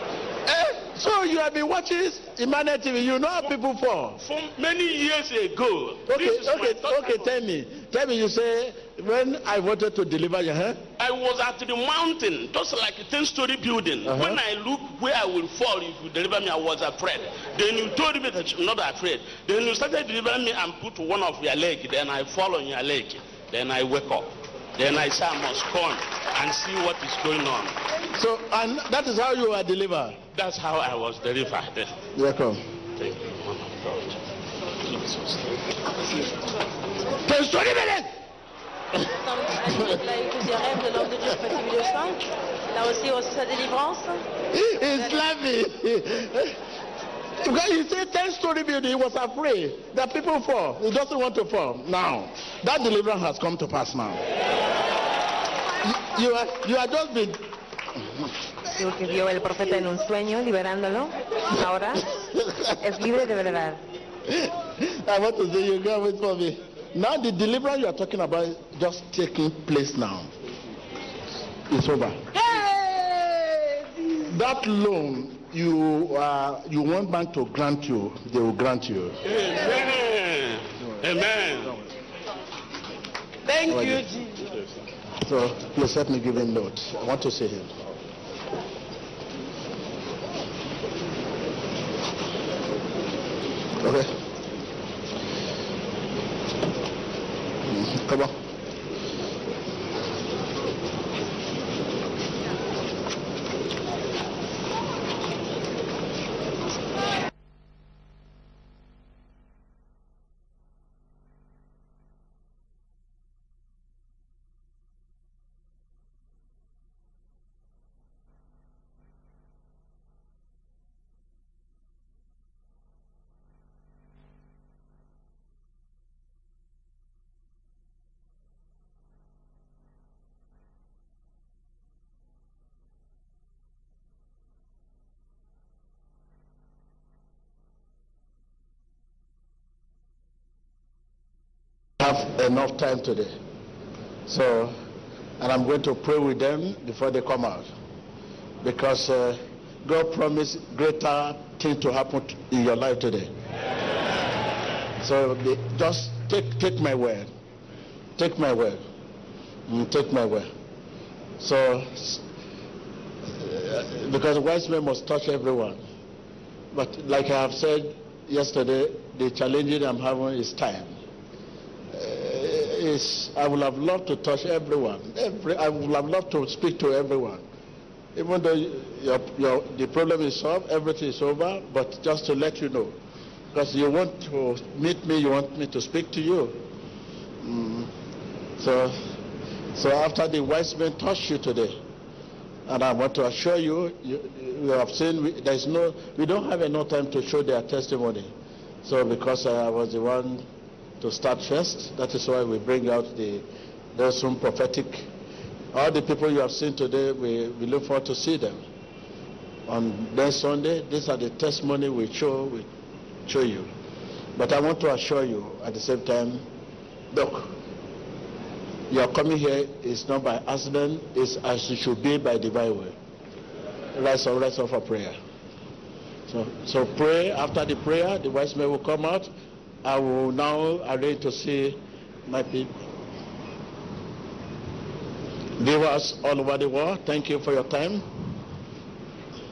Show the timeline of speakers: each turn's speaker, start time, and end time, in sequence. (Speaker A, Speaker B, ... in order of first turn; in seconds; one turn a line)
Speaker A: 0.5-4.2
Speaker B: 4.2-7.3
Speaker A: 6.1-10.8
Speaker B: 11.0-27.8
Speaker A: 14.0-14.4
Speaker A: 28.1-30.2
Speaker B: 30.3-31.9
Speaker A: 32.1-32.6
Speaker B: 33.0-34.1
Speaker B: 35.0-35.4
Speaker A: 37.3-38.0
Speaker C: 39.0-44.2
Speaker A: 44.5-46.5
Speaker C: 44.8-45.2
Speaker A: 47.4-54.2
Speaker A: 55.8-57.4
Speaker D: 58.7-62.1
Speaker D: 62.8-63.8
Speaker A: 64.3-70.3
Speaker A: 71.7-72.4
Speaker A: 74.2-79.2
Speaker B: 79.2-81.8
Speaker A: 83.7-84.1
Speaker A: 85.2-87.7
Speaker A: 93.8-94.1
Speaker A: 97.7-98.3
Speaker A: 142.0-143.3
Speaker A: 144.3-144.7
Speaker A: 145.4-147.7
Speaker A: 148.6-153.3
Speaker A: 155.0-157.3
Speaker A: 158.2-158.8
Speaker A: 159.7-160.5
Speaker A: 161.4-162.2
Speaker A: 163.4-165.8
Speaker A: 166.7-170.9
Speaker A: 171.9-177.4
Speaker A: 178.1-183.0
Speaker A: 183.5-186.6
Speaker A: 187.4-187.9
Speaker A: 188.6-189.0
Speaker A: 189.7-191.8
Speaker A: 192.7-200.4
Speaker A: 201.0-205.1
Speaker A: 205.7-208.6
Speaker A: 209.7-212.7
Speaker A: 213.3-213.7
Speaker A: 214.3-216.4
Speaker A: 217.1-217.5
Speaker A: 218.9-223.0
Speaker A: 223.9-225.2
Speaker A: 226.3-229.3
Speaker A: 229.8-232.7
Speaker A: 235.6-238.0